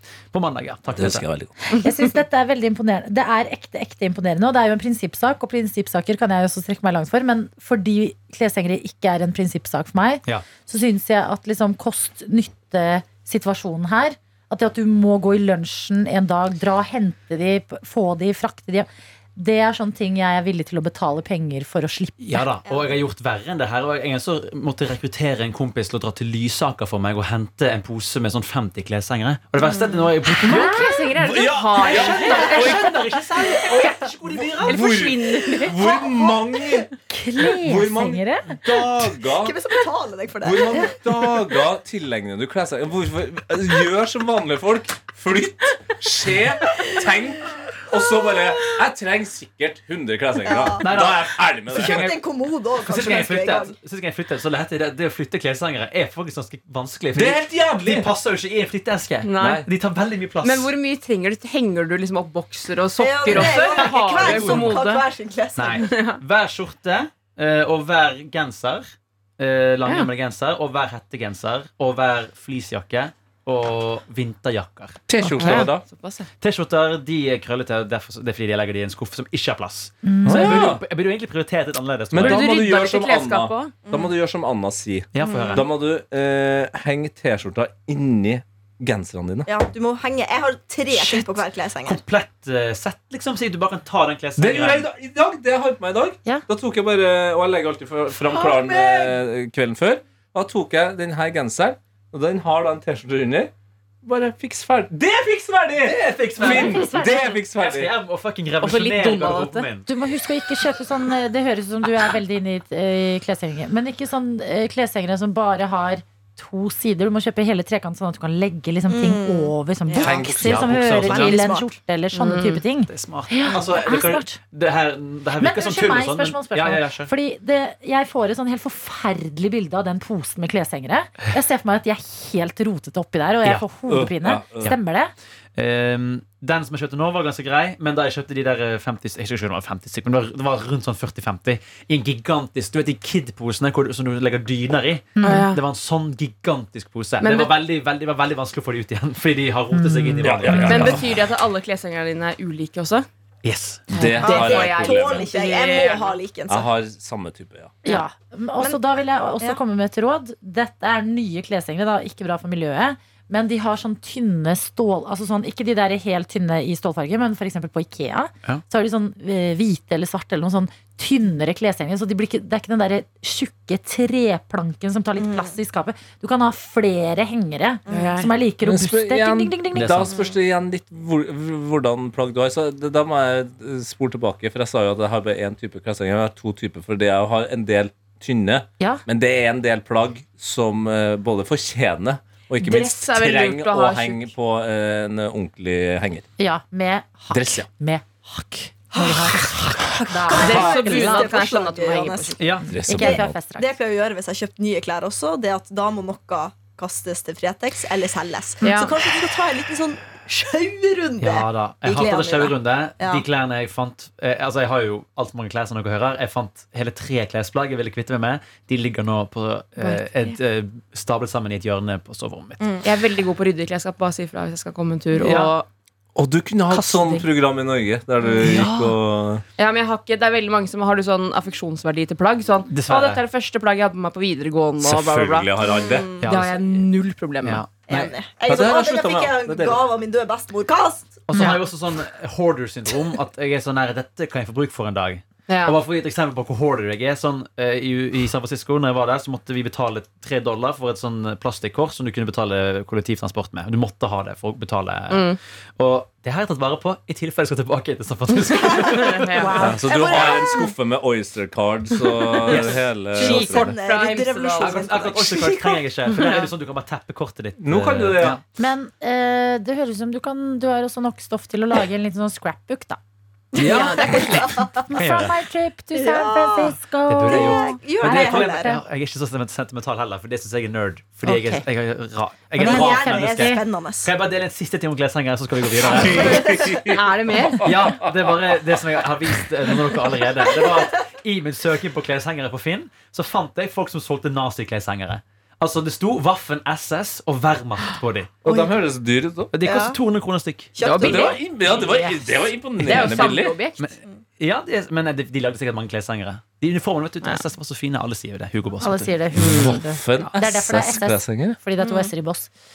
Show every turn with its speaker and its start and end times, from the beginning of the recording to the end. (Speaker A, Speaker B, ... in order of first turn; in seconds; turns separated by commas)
Speaker A: 0.3-1.3, Speaker B: 0.9-1.5, Speaker C: 1.6-22.5, Speaker A: 22.2-31.0, Speaker D: 22.7-23.0, Speaker D: 29.6-30.1, Speaker C: 30.3-31.1, Speaker E: 30.5-32.8, Speaker B: 31.2-33.1, Speaker A: 31.8-35.0, Speaker D: 32.3-34.3, Speaker B: 33.6-36.9, Speaker E: 34.6-35.8, Speaker D: 35.2-36.7, Speaker C: 37.1-38.7, Speaker B: 37.4-39.5, Speaker D: 39.3-41.0, Speaker B: 40.4-52.1, Speaker D: 50.5-51.1, Speaker A: 50.7-52.2, Speaker D: 51.7-53.8, Speaker A: 52.8-60.7, Speaker B: 57.1-58.1, Speaker E: 59.2-59.7, Speaker B: 59.4-59.7, Speaker E: 60.4-65.1, Speaker D: 63.0-66.0, Speaker A: 63.3-64.9, Speaker A: 65.6-75.0, Speaker E: 65.8-66.2, Speaker E: 69.8-70.1, Speaker B: 75.1-75.8, Speaker C: 75.2-75.7, Speaker E: 75.4-76.3, Speaker A: 76.4-82.5, Speaker C: 80.0-80.6, Speaker B: 80.3-80.8, Speaker B: 82.1-89.5, Speaker E: 82.2-83.8, Speaker D: 83.9-84.1, Speaker A: 85.1-85.7, Speaker D: 89.5-92.0, Speaker A: 90.9-94.9, Speaker B: 94.4-103.5, Speaker D: 98.3-99.2, Speaker B: 104.0-107.9, Speaker A: 105.9-109.9, Speaker C: 106.4-107.4, Speaker E: 108.6-109.7, Speaker C: 109.9-124.4, Speaker D: 118.9-121.7, Speaker B: 120.0-120.7, Speaker A: 120.0-121.4, Speaker E: 122.1-122.6, Speaker A: 122.9-127.1, Speaker C: 125.4-135.1, Speaker B: 133.9-134.8, Speaker A: 135.6-151.0, Speaker C: 145.2-145.5, Speaker E: 145.2-145.6, Speaker E: 147.2-147.6, Speaker C: 149.7-151.0, Speaker B: 150.2-151.2, Speaker E: 150.6-153.1, Speaker A: 153.4-154.5, Speaker B: 153.9-155.2, Speaker E: 154.2-156.2, Speaker D: 154.2-156.7, Speaker B: 156.5-157.8, Speaker C: 157.8-180.1, Speaker D: 175.2-175.5, Speaker D: 177.9-178.3, Speaker E: 177.9-178.3, Speaker B: 178.6-196.3, Speaker A: 179.8-180.2, Speaker C: 188.8-189.1, Speaker E: 192.6-194.3, Speaker C: 196.4-201.3, Speaker B: 197.3-197.7, Speaker D: 198.9-213.2, Speaker E: 200.3-202.4, Speaker A: 202.4-202.8, Speaker C: 202.7-203.7, Speaker B: 202.7-203.4, Speaker E: 208.6-208.9, Speaker A: 211.2-222.6, Speaker D: 222.6-222.8, Speaker E: 222.8-225.7, Speaker A: 225.2-225.5, Speaker B: 226.2-229.4, Speaker E: 226.7-227.2, Speaker A: 228.4-228.8, Speaker E: 229.6-237.7, Speaker A: 232.7-233.2, Speaker B: 234.8-236.1, Speaker D: 235.6-236.2, Speaker A: 236.2-236.6, Speaker A: 237.4-238.1, Speaker D: 237.9-241.2, Speaker B: 238.5-239.8, Speaker A: 241.3-259.9, Speaker E: 245.5-245.8, Speaker E: 255.1-255.4, Speaker E: 258.7-259.7, Speaker C: 259.4-259.9, Speaker D: 259.6-260.7, Speaker B: 259.6-263.8, Speaker E: 262.1-265.2, Speaker A: 262.5-262.8, Speaker D: 263.1-265.8, Speaker A: 264.6-268.4, Speaker E: 266.1-266.5, Speaker B: 267.6-268.4, Speaker C: 268.6-273.0, Speaker D: 273.6-274.9, Speaker A: 273.6-275.4, Speaker E: 273.6-274.3, Speaker C: 274.8-278.8, Speaker D: 275.9-276.8, Speaker A: 277.1-286.6, Speaker D: 277.3-278.8, Speaker C: 281.2-281.6, Speaker C: 282.6-283.6, Speaker D: 282.6-284.1, Speaker B: 285.9-288.5, Speaker E: 286.9-287.6, Speaker A: 287.6-298.4, Speaker B: 298.4-299.5, Speaker D: 298.4-298.7, Speaker A: 299.5-300.8, Speaker D: 299.6-300.0, Speaker D: 300.7-301.4, Speaker E: 300.8-301.4, Speaker B: 301.0-303.6, Speaker C: 301.8-302.1, Speaker E: 302.8-303.8, Speaker A: 303.8-309.8, Speaker C: 308.8-312.5, Speaker E: 309.4-309.7, Speaker B: 309.4-311.6, Speaker D: 311.8-312.1